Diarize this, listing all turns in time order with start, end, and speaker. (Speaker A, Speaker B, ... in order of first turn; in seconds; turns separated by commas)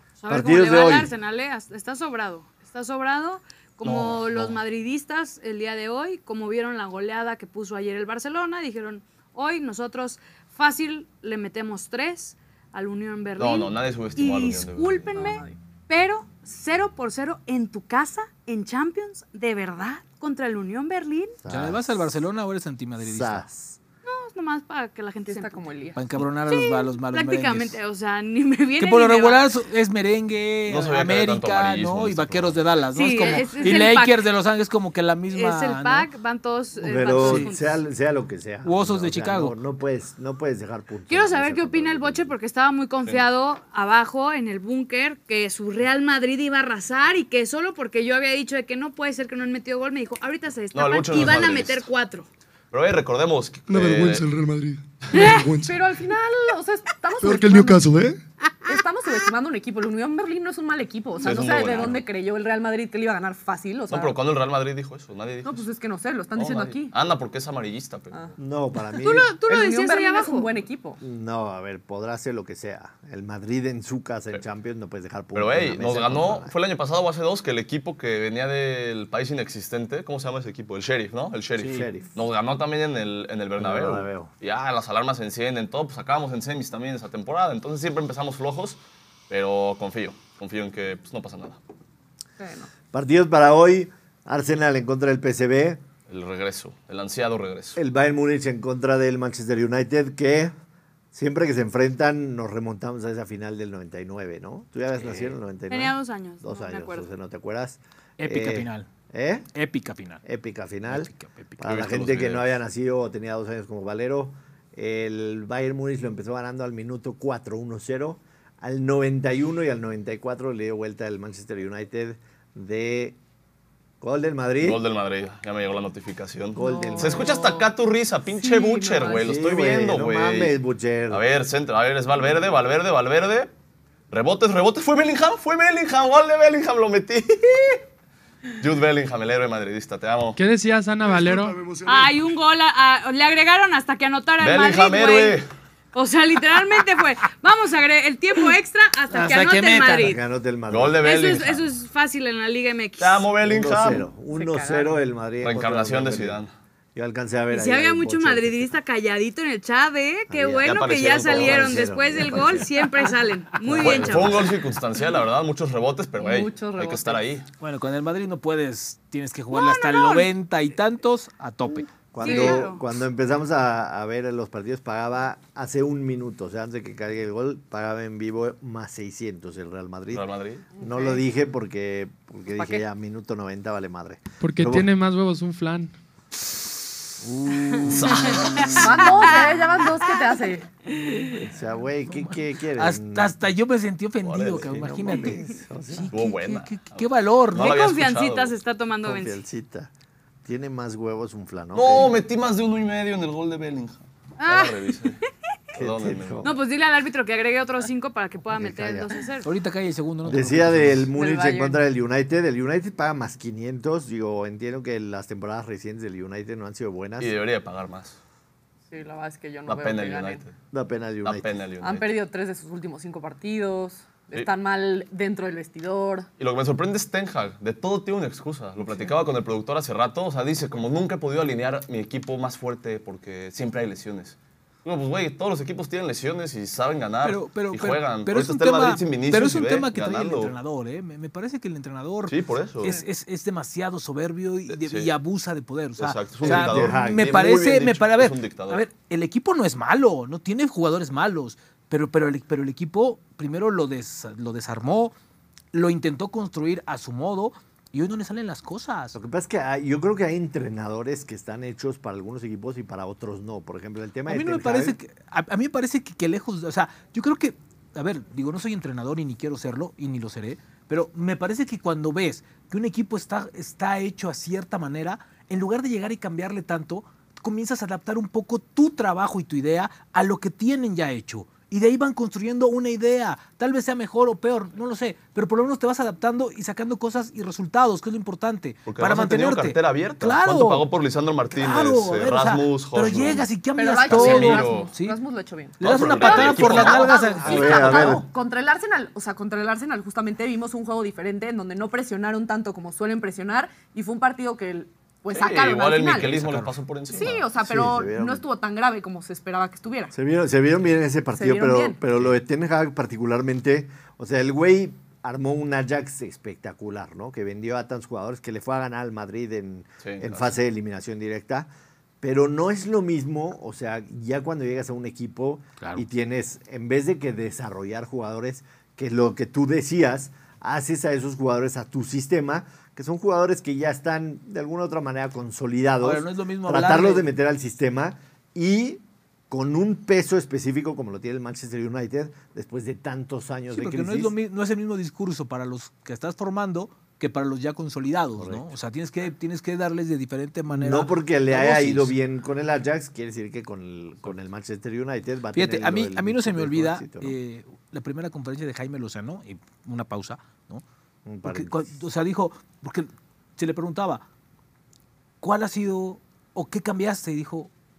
Speaker A: 0.2-21.4, Speaker B: 0.3-1.1, Speaker C: 3.8-4.6, Speaker C: 13.4-15.2, Speaker D: 15.1-15.6, Speaker B: 21.4-21.9, Speaker E: 21.5-23.5, Speaker B: 23.0-23.8, Speaker A: 24.0-25.6, Speaker D: 25.2-26.0, Speaker E: 25.9-27.8, Speaker A: 26.4-29.5, Speaker E: 28.8-36.1, Speaker C: 30.7-32.6, Speaker A: 32.9-34.2, Speaker A: 35.3-37.8, Speaker B: 36.8-42.3, Speaker E: 37.2-37.5, Speaker E: 38.6-39.5, Speaker A: 41.1-52.3, Speaker C: 50.7-51.8, Speaker C: 52.7-54.2, Speaker F: 53.7-55.9, Speaker A: 55.1-55.5, Speaker D: 55.2-57.8, Speaker F: 57.2-58.2, Speaker D: 58.6-64.2, Speaker C: 61.2-62.0, Speaker C: 63.9-65.7, Speaker D: 65.4-66.9, Speaker C: 66.3-68.3, Speaker B: 68.4-69.3, Speaker A: 69.0-70.5, Speaker D: 69.4-71.0, Speaker B: 71.0-76.5, Speaker C: 75.3-88.8, Speaker E: 81.6-81.9, Speaker B: 81.7-82.1, Speaker B: 83.6-84.3, Speaker C: 89.3-91.6, Speaker D: 92.4-92.7, Speaker B: 92.9-95.8, Speaker C: 96.1-97.8, Speaker B: 97.7-100.5, Speaker B: 101.1-109.5, Speaker E: 105.0-105.3, Speaker A: 105.7-107.1, Speaker E: 108.2-108.9, Speaker E: 109.5-110.2, Speaker B: 110.2-123.2, Speaker E: 110.9-111.6, Speaker C: 111.6-112.5, Speaker B: 124.0-124.8, Speaker C: 124.6-130.5, Speaker B: 126.5-127.3, Speaker D: 126.5-127.7, Speaker D: 128.3-129.3, Speaker B: 129.1-131.2, Speaker C: 131.1-133.5, Speaker C: 134.1-137.8, Speaker C: 138.6-140.4, Speaker G: 140.3-141.6, Speaker F: 141.0-142.2, Speaker A: 141.8-145.4, Speaker C: 144.4-145.5, Speaker A: 145.9-150.2, Speaker E: 149.1-150.2, Speaker B: 149.8-151.3, Speaker C: 150.7-151.7, Speaker A: 151.0-153.3, Speaker C: 153.0-154.1, Speaker B: 153.4-156.4, Speaker D: 154.3-155.0, Speaker C: 155.4-156.5, Speaker B: 156.9-158.7, Speaker A: 157.5-164.4, Speaker B: 160.3-162.7, Speaker C: 160.6-162.5, Speaker B: 163.6-164.6, Speaker C: 163.7-167.5, Speaker D: 166.2-167.2, Speaker E: 167.6-171.9, Speaker A: 169.5-170.3, Speaker B: 172.1-180.3, Speaker D: 172.2-172.7, Speaker A: 172.2-172.8, Speaker C: 180.1-180.7, Speaker D: 180.8-181.2, Speaker B: 180.8-184.9, Speaker G: 184.4-185.9, Speaker E: 187.2-188.1, Speaker C: 187.8-189.2, Speaker A: 188.0-189.3, Speaker D: 188.8-190.7, Speaker A: 190.9-191.4, Speaker B: 191.3-193.4, Speaker E: 192.1-197.7, Speaker C: 194.2-195.1, Speaker B: 194.4-196.1, Speaker C: 196.1-198.5, Speaker A: 197.5-199.4, Speaker B: 199.0-199.9, Speaker B: 200.4-202.2, Speaker C: 201.7-205.2, Speaker A: 204.4-205.0, Speaker B: 205.7-206.5, Speaker C: 205.8-206.5, Speaker A: 206.4-209.5, Speaker B: 208.5-209.1, Speaker E: 209.4-211.1, Speaker B: 210.2-217.3, Speaker D: 211.1-211.8, Speaker C: 217.2-218.2, Speaker D: 218.9-220.5, Speaker C: 219.7-220.5, Speaker B: 220.7-221.5, Speaker C: 221.2-222.1, Speaker D: 221.8-226.3, Speaker C: 226.4-240.6, Speaker E: 237.2-255.1, Speaker C: 242.3-243.0, Speaker C: 244.7-245.1, Speaker C: 246.0-248.8, Speaker B: 246.4-247.5, Speaker E: 255.7-259.1, Speaker B: 259.1-264.9, Speaker E: 264.3-290.9, Speaker C: 288.9-293.5, Speaker E: 291.6-295.2, Speaker D: 293.8-306.4, Speaker C: 294.0-294.9, Speaker E: 295.8-298.2, Speaker C: 295.8-298.1, Speaker B: 297.4-298.2, Speaker C: 305.3-307.4, Speaker E: 306.2-306.7, Speaker D: 307.1-310.1, Speaker B: 307.2-308.4, Speaker B: 310.1-321.7, Speaker D: 311.3-312.0, Speaker C: 320.0-320.6, Speaker B: 322.2-344.3, Speaker E: 336.0-337.3, Speaker E: 343.7-352.1, Speaker B: 348.4-348.7, Speaker B: 350.7-357.4, Speaker E: 355.5-360.8, Speaker B: 361.2-361.8, Speaker E: 361.4-364.2, Speaker E: 365.4-367.7